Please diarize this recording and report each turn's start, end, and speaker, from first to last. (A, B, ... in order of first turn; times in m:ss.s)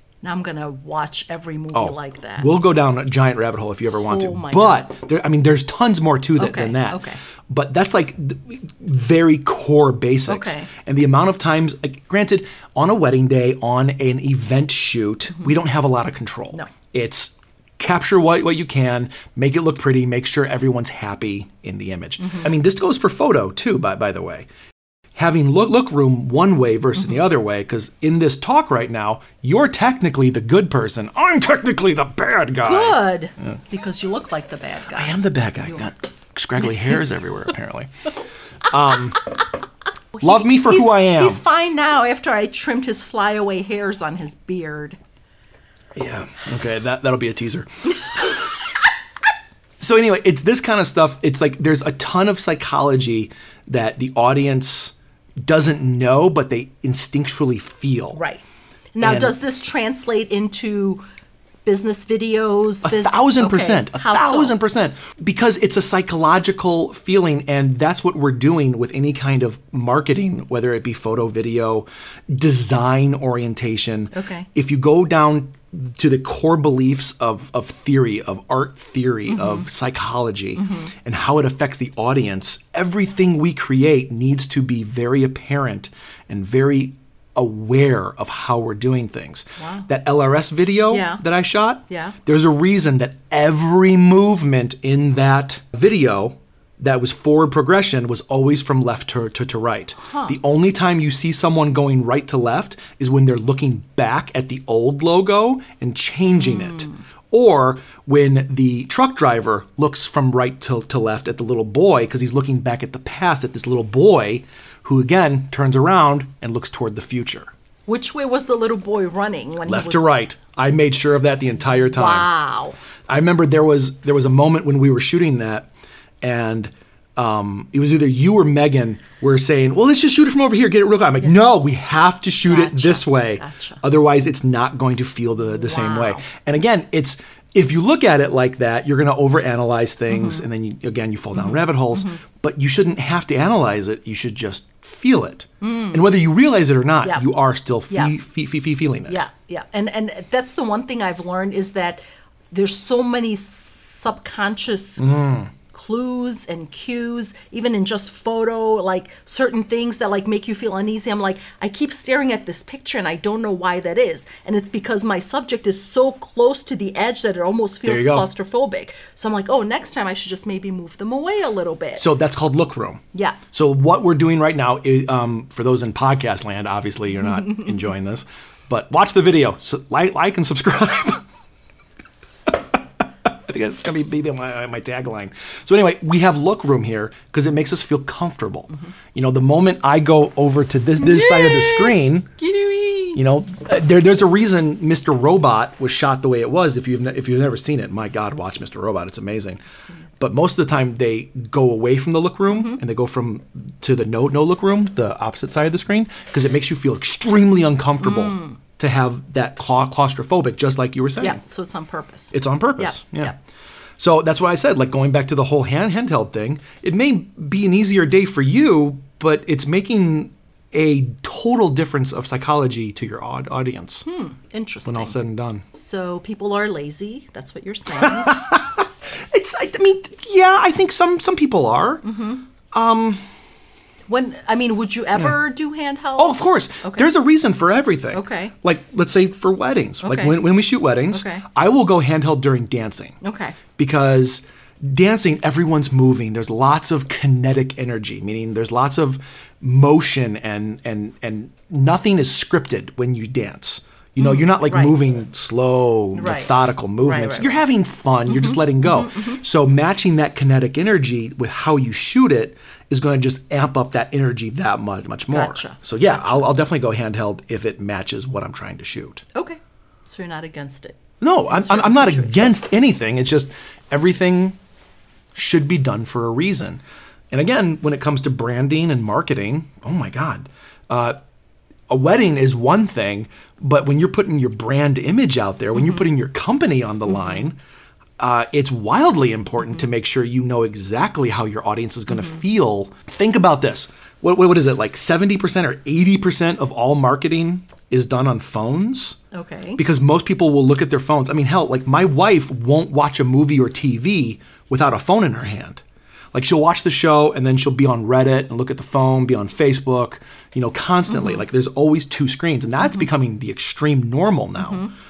0:00.2-0:02.5 A
0:01.7-0:24.5 B
0:03.9-0:04.9 A
0:06.4-0:07.2 A
0:10.3-0:10.7 A
0:22.2-0:22.5 A
0:25.2-0:33.5 B
0:32.6-0:35.8 A
0:34.9-0:38.1 B
0:38.7-0:39.3 B
0:40.2-0:45.0 A
0:40.2-0:41.4 B
0:46.0-0:48.5 B
0:49.8-0:58.2 B
0:58.2-0:58.4 A
0:59.0-1:01.0 A
0:59.0-0:59.4 B
1:01.7-1:04.6 A
1:02.8-1:57.5 B
1:14.1-1:14.5 A
1:19.3-1:19.7 A
1:20.6-1:20.9 A
1:29.6-1:29.9 A
1:30.9-1:31.2 A
1:31.9-1:32.2 A
1:40.0-1:40.4 A
1:46.4-1:47.0 A
1:57.9-2:00.1 A
1:59.7-2:02.3 B
2:01.9-2:02.8 A
2:03.1-2:05.7 B
2:06.2-2:29.2 B
2:12.4-2:13.8 A
2:15.5-2:16.2 A
2:20.1-2:20.4 A
2:21.3-2:22.2 A
2:25.6-2:26.0 A
2:27.0-2:27.3 A
2:29.1-2:35.1 A
2:35.0-2:35.5 B
2:35.6-2:52.1 A
2:47.8-2:48.3 B
2:52.0-3:01.2 B
2:53.1-2:53.4 A
3:03.2-3:12.3 B
3:11.0-3:13.2 A
3:13.1-3:19.6 B
3:20.2-3:31.4 B
3:22.5-3:22.8 A
3:28.0-3:28.6 A
3:31.2-3:33.4 A
3:32.3-3:33.4 B
3:34.0-3:44.0 B
3:44.0-3:45.2 A
3:44.9-3:45.6 B
3:45.7-3:48.4 A
3:48.0-3:52.0 B
3:52.0-3:52.4 A
3:52.7-3:53.2 B
3:54.1-3:57.1 A
3:56.2-4:03.2 B
3:58.1-3:58.5 A
4:00.0-4:00.5 A
4:01.1-4:01.4 A
4:03.2-4:03.6 A
4:03.8-4:29.2 B
4:14.2-4:15.0 A
4:16.2-4:17.6 A
4:18.3-4:19.4 A
4:25.3-4:26.5 A
4:29.3-4:32.5 A
4:31.2-4:34.6 B
4:35.3-4:41.2 B
4:41.9-4:47.6 B
4:45.8-4:46.1 A
4:48.2-4:59.2 B
4:59.3-4:59.8 A
4:59.8-5:05.8 B
5:06.3-5:14.9 B
5:11.1-5:11.4 A
5:14.6-5:14.9 A